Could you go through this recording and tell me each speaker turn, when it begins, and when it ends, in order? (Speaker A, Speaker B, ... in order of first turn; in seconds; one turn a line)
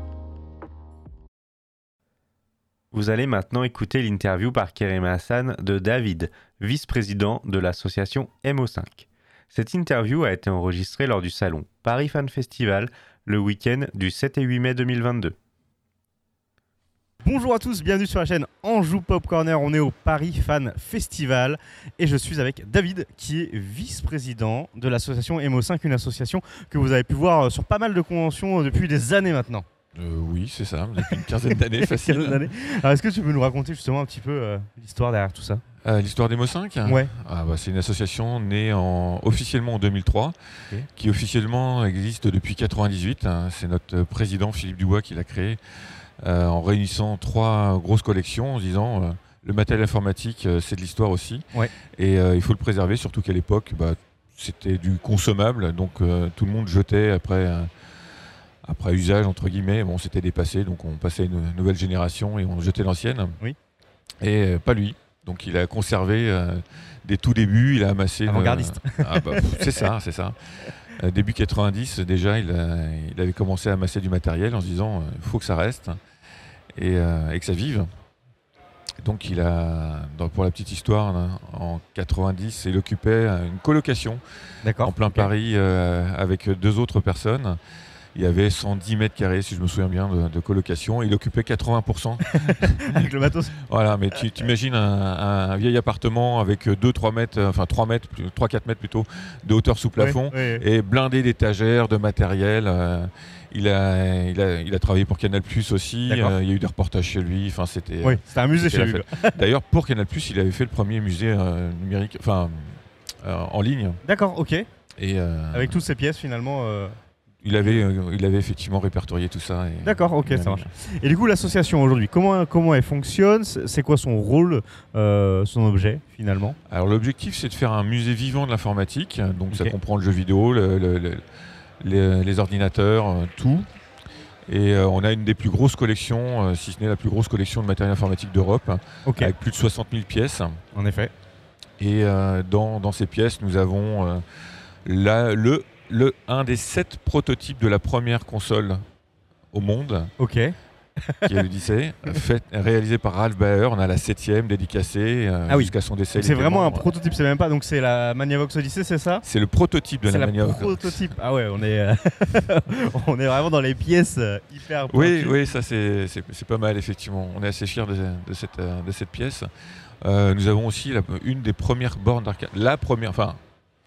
Speaker A: 2.9-15.3
Speaker B: 17.2-29.6
Speaker C: 29.9-32.5
Speaker B: 31.1-35.6
Speaker C: 35.8-40.3
Speaker B: 36.8-37.1
Speaker C: 40.9-45.6
Speaker C: 46.2-51.4
Speaker C: 51.9-57.7
Speaker C: 58.6-63.4
Speaker C: 64.2-70.4
Speaker B: 68.2-69.9
Speaker C: 71.0-76.0
Speaker C: 76.7-77.9
Speaker C: 79.0-84.2
Speaker B: 84.6-85.3
Speaker C: 84.8-87.6
Speaker C: 88.1-114.0
Speaker B: 92.2-93.5
Speaker B: 100.0-100.6
Speaker B: 106.0-106.4
Speaker B: 108.0-109.4
Speaker B: 114.0-114.7
Speaker C: 115.0-115.8
Speaker B: 115.5-117.0
Speaker C: 117.4-120.7
Speaker B: 119.8-126.6
Speaker C: 126.7-131.2
Speaker C: 131.8-133.7
Speaker C: 134.5-140.6
Speaker B: 139.0-139.3
Speaker B: 140.7-141.1
Speaker C: 141.8-144.2
Speaker C: 144.8-148.8
Speaker C: 149.5-150.1
Speaker B: 150.2-151.4
Speaker C: 151.2-156.9
Speaker B: 155.5-159.2
Speaker C: 159.2-161.1
Speaker B: 160.0-165.4
Speaker C: 164.9-169.5
Speaker C: 170.0-173.4